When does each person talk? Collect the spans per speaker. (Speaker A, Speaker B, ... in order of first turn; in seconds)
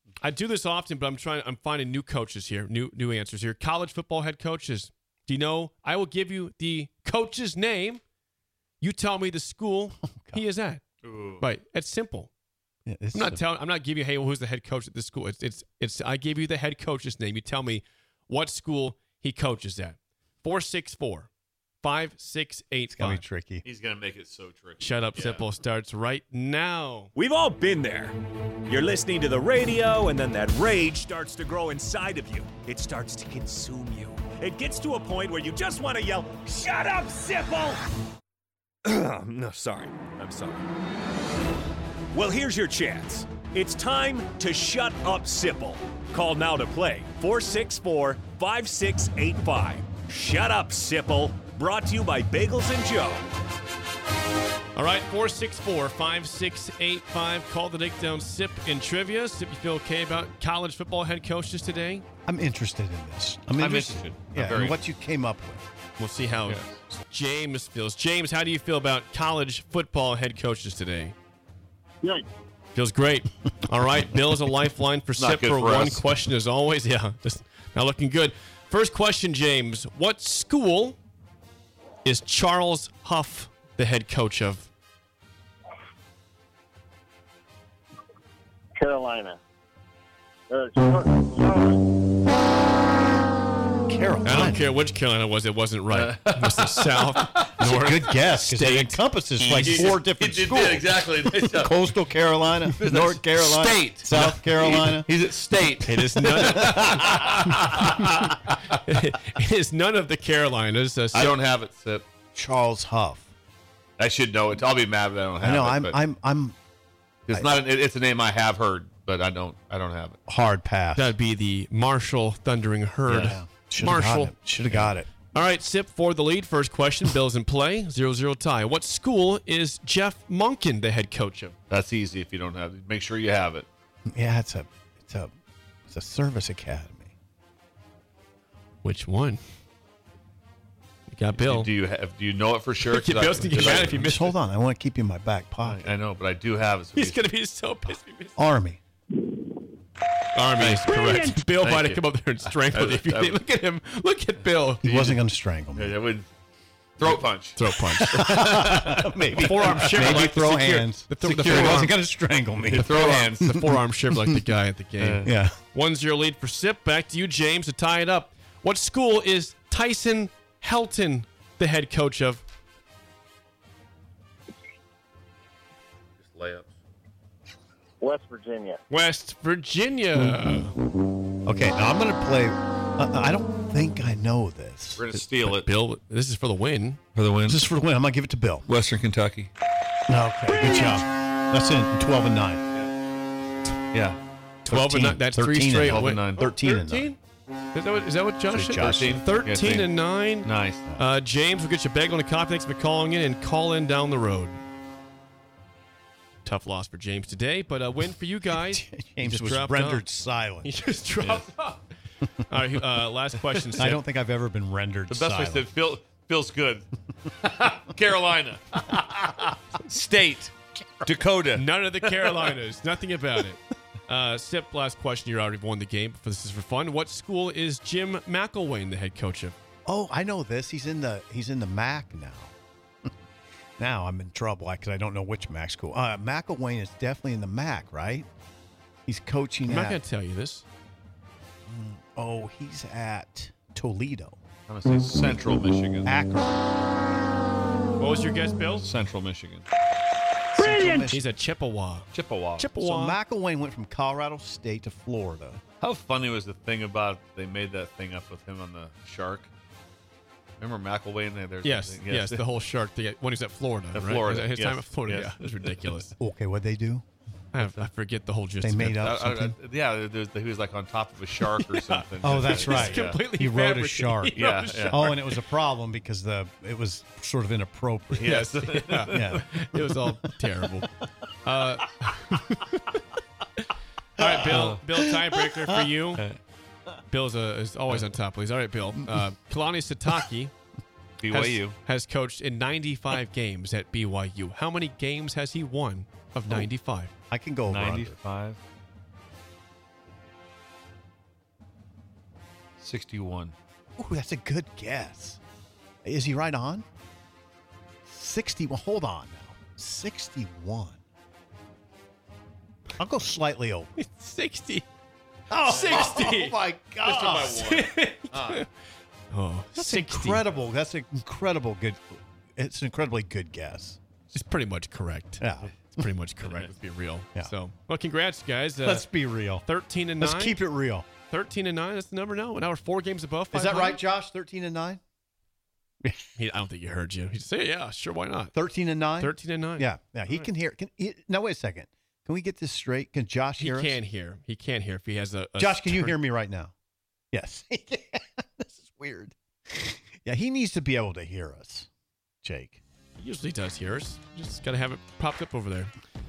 Speaker A: 0.2-8.0, 8.8-10.8, 11.4-12.3, 13.1-21.3, 21.8-23.2, 24.8-27.1, 54.8-62.0, 66.0-71.2, 72.8-81.0, 82.0-84.7, 94.2-99.9, 105.8-107.9, 108.7-111.4, 121.0-131.6, 138.8-139.4, 141.1-141.7, 142.8-144.4, 146.9-148.4, 150.3-154.8, 157.1-158.4, 159.4-162.0, 162.9-172.4, 178.9-180.7, 185.1-187.0, 190.5-191.0, 194.7-197.2, 197.7-204.6, 206.4-210.0, 210.6-211.8, 212.4-214.0, 221.6-229.6, 239.7-240.7, 248.0-248.9, 251.1-253.2, 261.6-266.1, 267.5-269.2, 271.5-275.4, 278.2-280.9, 281.4-283.0, 284.2-286.3, 287.1-290.5, 291.3-297.1, 314.0-314.9, 315.6-316.6, 317.4-318.7, 319.3-320.4, 324.3-329.1, 329.6-330.6, 331.3-334.0, 336.4-338.5, 339.2-340.5, 343.6-346.2, 353.2-355.9
Speaker B: 10.1-10.4, 12.9-13.4, 22.9-23.6, 62.3-65.7, 93.9-94.7, 97.6-105.1, 106.2-107.4, 112.3-113.3, 115.4-116.6, 120.3-121.2, 123.1-125.1, 134.1-135.3, 135.9-137.1, 143.6-145.9, 147.9-148.8, 154.8-155.9, 157.9-164.4, 165.2-165.6, 181.4-185.0, 187.5-188.7, 190.1-192.6, 194.7-197.1, 198.5-199.2, 208.5-210.7, 213.8-215.7, 229.9-232.5, 233.8-238.3, 239.1-240.0, 241.7-244.4, 246.0-246.7, 250.6-251.3, 252.8-255.6, 266.2-267.1, 268.6-269.6, 272.2-278.4, 279.1-280.1, 284.2-285.9, 289.0-289.2, 297.3-298.2, 304.0-305.4, 306.0-306.9, 308.1-311.0, 313.0-313.9, 315.5-317.7, 319.8-324.0, 325.4-326.1, 328.8-329.7, 330.2-331.1, 333.5-335.0, 336.0-336.4, 338.5-344.0, 345.6-346.7, 347.3-351.9, 352.4-352.8
Speaker C: 11.0-11.4, 23.6-25.4, 63.6-64.8, 66.5-66.8, 75.2-76.1, 95.9-97.8, 99.4-101.9, 102.7-108.8, 111.1-112.1, 114.0-116.0, 117.3-120.2, 131.7-133.7, 141.4-144.1, 145.6-147.3, 150.6-153.4, 154.8-155.2, 155.7-156.3, 157.0-160.2, 161.2-161.8, 162.7-163.6, 165.0-165.3, 176.2-176.7, 185.0-185.7, 187.2-187.6, 188.7-189.5, 193.9-194.2, 195.9-196.5, 198.8-200.9, 211.2-211.5, 213.4-213.9, 215.1-216.9, 217.4-220.5, 221.0-222.5, 244.7-246.1, 248.8-249.7, 252.1-252.7, 255.8-259.5, 260.6-262.4, 263.9-266.0, 267.6-267.9, 269.0-273.2, 274.4-275.0, 278.2-279.4, 284.5-284.8, 291.2-291.8, 297.7-298.6, 302.8-303.6, 315.7-316.3, 317.0-318.7, 326.4-326.7
Speaker D: 27.1-37.9, 38.8-40.7, 42.1-53.3
Speaker E: 88.8-89.4, 90.5-91.8, 178.0-178.8